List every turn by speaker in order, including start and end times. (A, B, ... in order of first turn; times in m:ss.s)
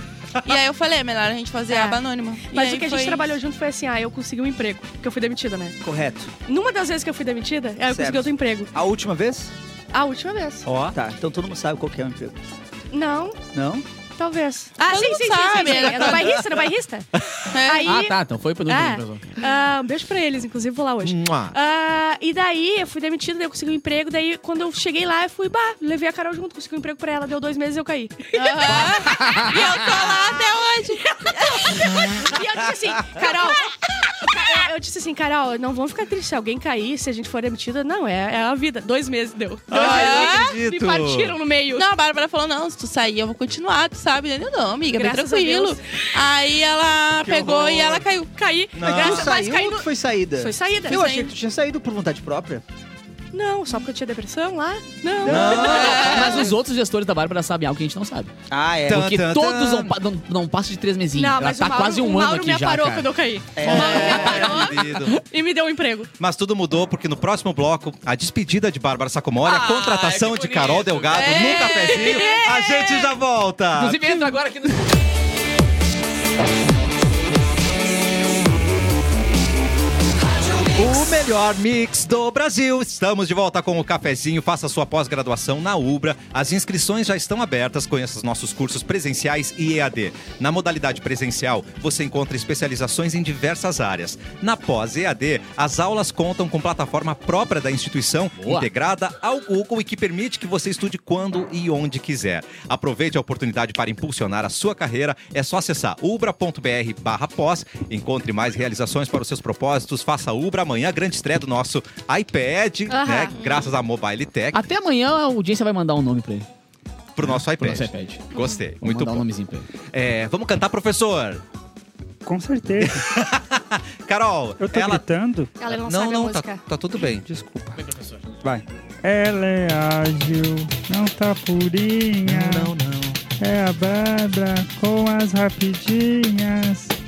0:00.4-0:03.3 A
0:01.7-0:05.8 B
0:05.8-0:06.3 C
0:06.5-0:08.7 B
0:07.8-0:09.5 C
0:09.9-0:10.7 B
0:10.7-0:10.9 D
0:10.8-0:12.4 C
0:12.9-0:13.4 B
0:13.5-0:13.8 C
0:14.2-0:29.6 B
0:14.9-0:16.4 A
0:17.5-0:17.9 A
0:17.8-0:19.2 E
0:21.0-0:21.6 D
0:28.3-0:31.8 A
0:29.1-0:29.6 E
0:31.1-0:41.8 B
0:39.7-0:41.4 D
0:39.7-0:40.6 A
0:41.7-0:48.3 A
0:44.9-0:46.1 B
0:47.3-0:48.0 C
0:48.3-0:51.2 B
0:48.8-0:49.3 D
0:48.8-0:52.6 C
0:50.9-0:51.3 A
0:53.3-0:56.4 B
0:55.2-0:56.4 D
0:55.2-0:56.1 C
0:55.3-0:58.3 E
0:55.6-0:56.3 A
0:58.5-0:59.1 C
0:58.8-0:59.9 D
0:58.9-1:03.1 E
1:01.2-1:06.1 B
1:03.6-1:04.5 C
1:03.6-1:05.2 D
1:03.7-1:05.0 E
1:06.2-1:14.0 D
1:09.4-1:11.6 E
1:11.1-1:12.3 A
1:11.6-1:13.1 B
1:13.7-1:14.9 E
1:20.7-1:54.6 D
1:38.4-1:38.7 E
1:52.9-1:53.4 B
1:53.4-1:53.6 A
1:54.5-1:56.5 E
1:57.2-1:59.3 D
1:57.2-1:59.7 E
1:59.8-2:01.4 D
2:02.2-2:03.1 F
2:02.8-2:05.0 D
2:04.6-2:05.5 F
2:05.6-2:06.6 B
2:05.7-2:07.2 D
2:07.0-2:07.8 F
2:07.8-2:08.2 E
2:09.0-2:12.7 F
2:12.3-2:12.6 C
2:12.3-2:13.2 D
2:13.4-2:17.0 F